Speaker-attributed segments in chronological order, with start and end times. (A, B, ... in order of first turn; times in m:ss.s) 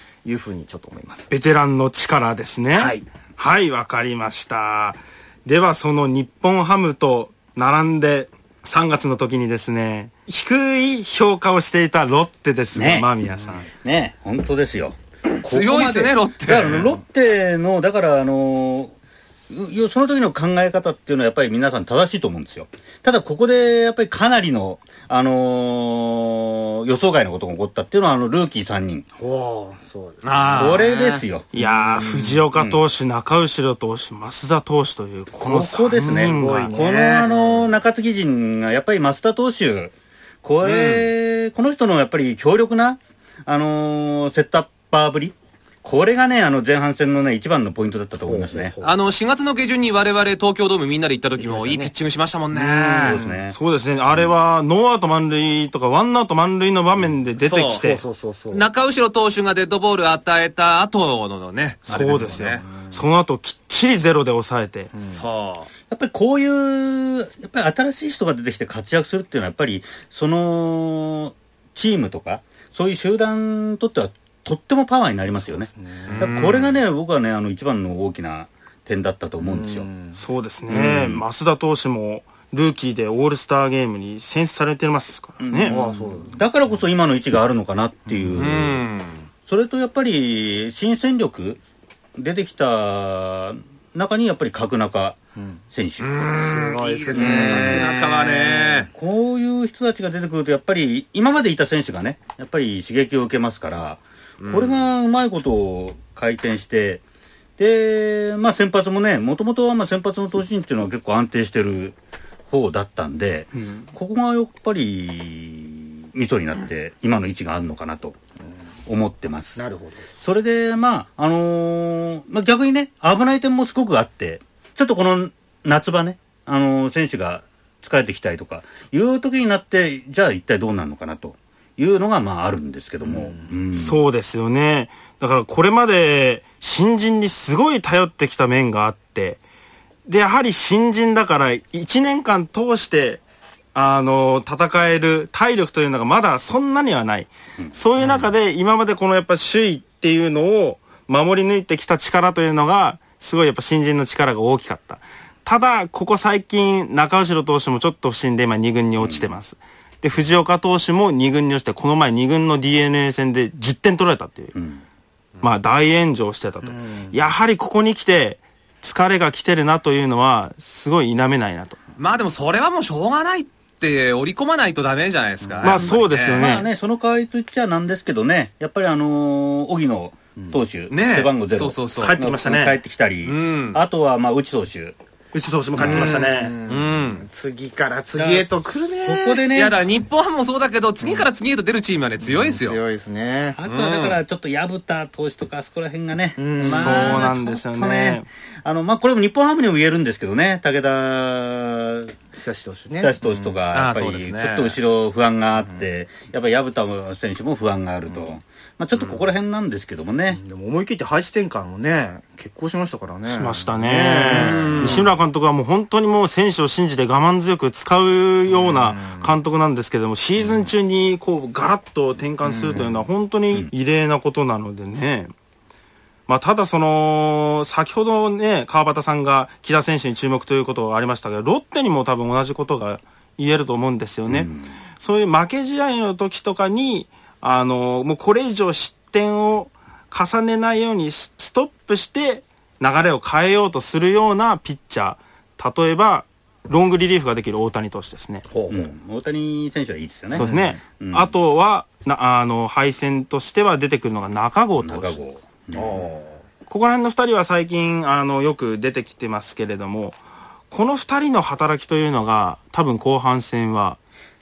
0:00.2-0:01.3 A
0:01.3-0:13.7 B
0:02.8-0:03.1 A
0:12.7-0:13.1 C
0:13.6-0:18.9 C
0:15.4-0:16.9 D
0:19.5-0:29.1 C
0:29.2-0:32.3 A
0:30.2-0:30.8 D
0:30.5-0:31.5 C
0:31.5-0:36.7 B
0:32.6-0:32.8 C
0:35.4-0:48.7 C
0:36.0-0:37.8 A
0:40.6-0:41.1 D
0:48.3-0:49.0 A
0:48.8-0:53.2 D
0:51.4-0:51.9 A
0:52.8-0:53.4 A
0:52.9-0:53.6 C
0:53.5-0:58.0 B
0:57.4-0:57.9 D
0:57.8-0:58.6 A
0:58.5-1:02.6 D
1:01.9-1:04.9 B
1:01.9-1:02.3 C
1:02.4-1:03.0 A
1:04.9-1:05.2 A
1:05.0-1:05.7 D
1:05.9-1:19.9 C
1:15.7-1:16.3 A
1:16.1-1:16.8 D
1:19.4-1:20.2 A
1:20.2-1:25.8 B
1:20.7-1:21.2 C
1:25.4-1:28.8 C
1:25.7-1:26.5 A
1:28.4-1:29.2 D
1:29.5-1:31.6 C
1:32.2-1:35.2 C
1:35.7-1:36.6 C
1:36.0-1:38.9 D
1:36.3-1:38.8 A
1:37.1-1:38.0 C
1:38.9-1:47.0 C
1:44.4-1:44.8 D
1:47.6-1:52.0 C
1:52.5-1:58.2 C
1:58.9-1:59.6 C
1:59.6-2:00.1 A
2:00.2-2:14.0 C
2:13.0-2:13.5 A
2:13.7-2:19.4 B
2:20.1-2:23.2 B
2:23.8-2:44.5 B
2:39.0-2:39.3 C
2:44.6-2:44.8 C
2:45.4-2:51.8 B
2:46.7-2:47.2 A
2:52.0-2:56.5 D
2:55.6-2:56.7 B
2:55.6-3:05.0 C
3:00.9-3:02.2 D
3:02.0-3:02.8 B
3:03.2-3:03.8 D
3:05.3-3:06.5 B
3:05.8-3:06.1 C
3:05.8-3:09.4 A
3:05.9-3:07.2 D
3:08.2-3:08.4 C
3:09.0-3:09.8 C
3:09.5-3:12.8 D
3:11.0-3:11.3 A
3:12.2-3:13.6 A
3:13.6-3:22.1 C
3:13.7-3:14.2 D
3:16.4-3:17.3 A
3:16.6-3:18.3 B
3:22.3-3:23.6 A
3:22.9-3:30.4 C
3:23.7-3:24.8 D
3:30.3-3:34.5 A
3:33.3-3:45.3 B
3:34.0-3:35.1 C
3:34.4-3:35.0 D
3:38.5-3:39.3 A
3:42.4-3:43.0 A
3:46.3-4:08.4 B
3:54.3-3:54.7 C
4:08.5-4:08.9 A
4:08.7-4:11.3 C
4:10.3-4:15.2 B
4:10.4-4:10.8 A
4:14.8-4:16.1 C
4:15.7-4:16.4 A
4:16.7-4:20.2 B
4:20.7-4:24.0 B